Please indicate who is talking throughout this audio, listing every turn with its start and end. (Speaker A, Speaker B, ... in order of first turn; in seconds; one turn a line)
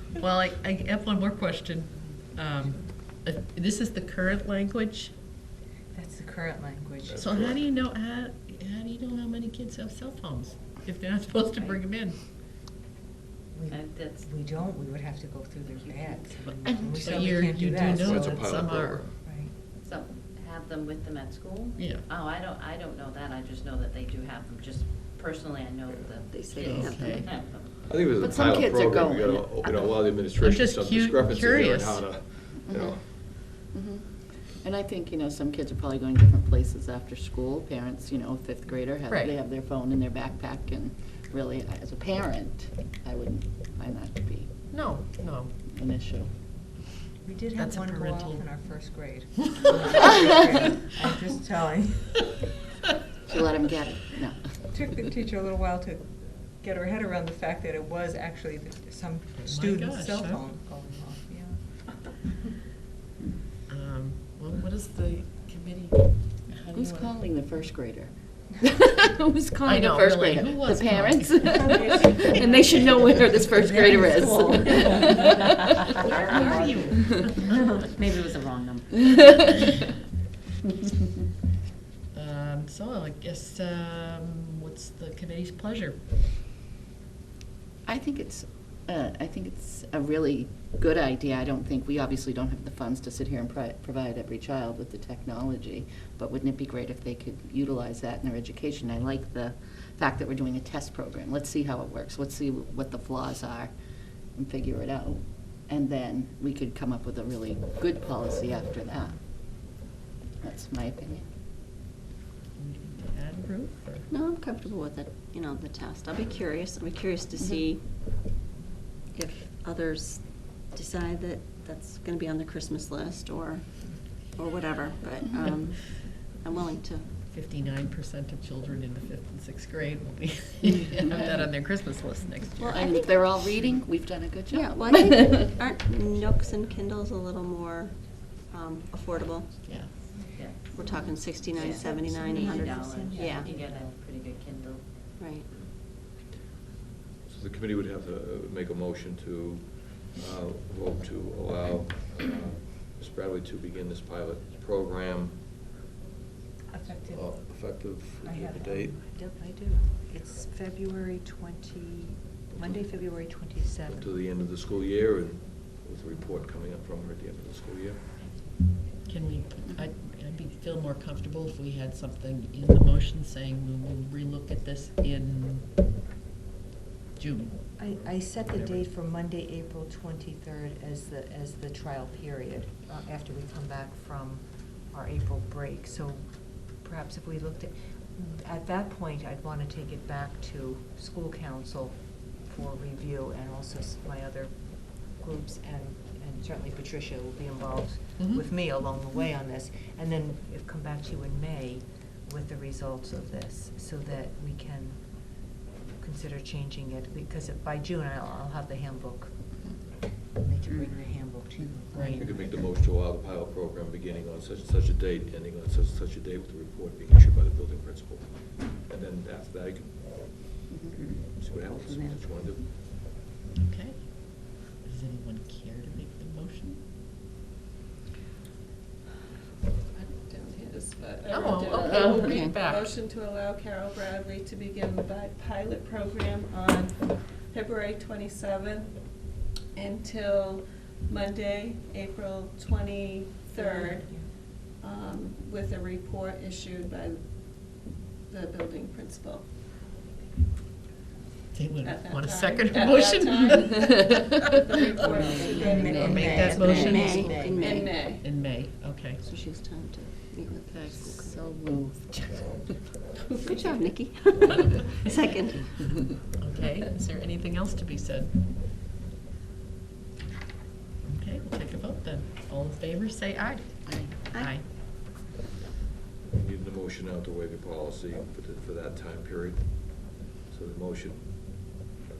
Speaker A: 0.2-5.1
Speaker B: 5.9-7.3
Speaker C: 7.1-7.7
Speaker A: 7.2-12.2
Speaker B: 13.5-18.4
Speaker D: 13.7-14.3
Speaker D: 15.7-16.3
Speaker A: 16.6-19.1
Speaker C: 17.9-19.2
Speaker B: 19.2-19.5
Speaker D: 19.8-27.7
Speaker A: 21.8-22.1
Speaker E: 26.3-27.2
Speaker A: 26.6-27.3
Speaker C: 27.8-33.0
Speaker F: 28.2-29.4
Speaker A: 30.4-32.3
Speaker F: 32.6-33.0
Speaker F: 33.5-44.5
Speaker A: 44.7-45.5
Speaker F: 45.7-46.3
Speaker B: 47.2-52.4
Speaker A: 47.6-48.5
Speaker F: 53.3-54.4
Speaker B: 54.7-62.3
Speaker A: 59.4-60.4
Speaker A: 63.7-66.5
Speaker B: 66.5-67.1
Speaker F: 66.6-75.5
Speaker A: 69.6-72.1
Speaker B: 71.5-77.8
Speaker A: 76.1-77.5
Speaker D: 78.0-79.0
Speaker A: 82.1-86.1
Speaker F: 87.8-103.7
Speaker F: 104.3-109.8
Speaker F: 110.4-111.3
Speaker A: 112.6-114.1
Speaker E: 114.1-117.9
Speaker E: 119.1-127.1
Speaker A: 127.3-132.8
Speaker E: 132.6-133.3
Speaker F: 132.6-135.4
Speaker E: 134.5-139.5
Speaker A: 139.6-139.9
Speaker D: 140.3-141.0
Speaker E: 140.7-143.5
Speaker D: 141.5-144.9
Speaker B: 141.7-143.8
Speaker E: 145.2-145.5
Speaker C: 147.2-155.6
Speaker B: 156.7-164.1
Speaker C: 157.1-159.0
Speaker C: 162.6-162.8
Speaker C: 163.9-168.2
Speaker A: 169.1-175.9
Speaker A: 177.2-177.8
Speaker B: 177.8-212.5
Speaker C: 178.0-178.7
Speaker A: 211.9-212.3
Speaker C: 212.2-222.7
Speaker F: 220.7-221.1
Speaker A: 223.6-226.8
Speaker G: 229.9-249.5
Speaker A: 231.3-232.9
Speaker E: 232.2-232.6
Speaker B: 243.6-244.3
Speaker A: 251.5-255.1
Speaker G: 251.8-256.6
Speaker B: 255.4-257.6
Speaker A: 255.7-259.2
Speaker E: 256.5-258.1
Speaker G: 257.5-258.3
Speaker E: 259.2-261.4
Speaker F: 260.7-262.8
Speaker E: 263.4-265.9
Speaker A: 266.4-268.5
Speaker A: 271.0-274.7
Speaker F: 273.9-274.1
Speaker C: 276.3-281.7